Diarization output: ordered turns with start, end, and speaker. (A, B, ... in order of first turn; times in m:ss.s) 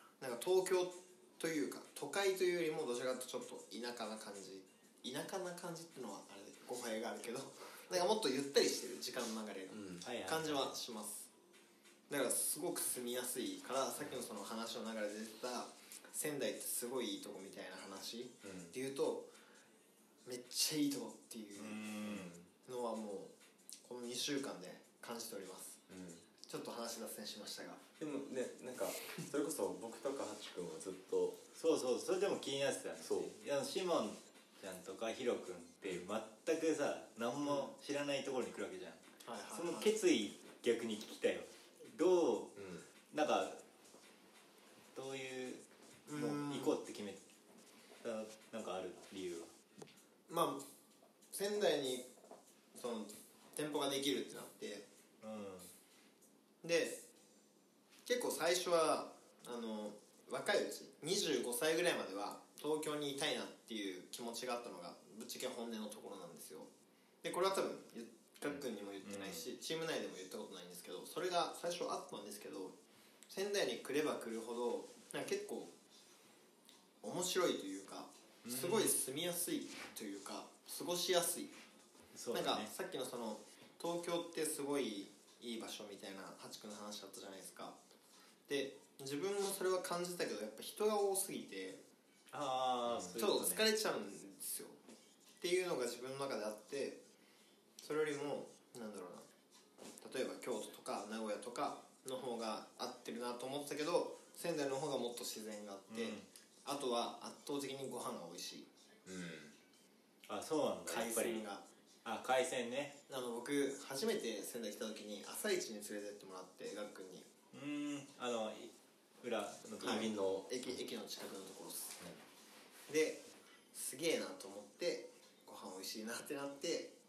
0:00.2-0:11.3 A
0:09.7-0:10.0 B
0:10.0-0:10.7 C
0:12.1-0:19.3 A
0:18.4-0:18.7 B
0:20.2-0:21.8 A
0:21.6-0:22.3 C
0:22.0-0:22.5 B
0:22.7-0:23.3 A
0:23.8-0:25.8 A
0:25.9-0:26.2 B
0:26.4-0:27.8 A
0:28.0-0:31.4 B
0:31.6-0:39.0 C
0:33.0-0:33.3 B
0:39.2-0:39.9 A
0:39.5-0:42.6 C
0:42.6-0:42.9 B
0:43.1-0:43.6 C
0:45.0-0:47.2 C
0:46.1-0:46.7 A
0:48.0-0:49.5 C
0:50.3-0:50.6 A
0:51.3-0:52.1 A
0:52.7-0:54.9 A
0:55.2-0:55.7 C
0:56.6-0:57.0 A
0:58.1-1:06.7 A
1:07.2-1:12.8 A
1:09.0-1:09.5 C
1:13.3-1:15.7 A
1:17.0-1:21.6 A
1:18.4-1:19.0 C
1:22.1-1:22.7 C
1:22.3-1:27.8 A
1:28.5-1:31.8 A
1:32.3-1:33.7 C
1:33.2-1:34.8 A
1:35.4-1:37.0 A
1:37.8-1:39.3 A
1:40.0-1:48.7 A
1:45.9-1:46.3 C
1:49.1-1:49.5 B
1:50.3-1:51.4 C
1:50.9-1:51.6 A
1:52.0-1:53.0 C
1:53.1-1:57.3 A
1:57.5-2:00.1 C
1:59.8-2:00.5 B
1:59.8-2:02.0 A
2:02.9-2:03.2 A
2:03.7-2:06.9 A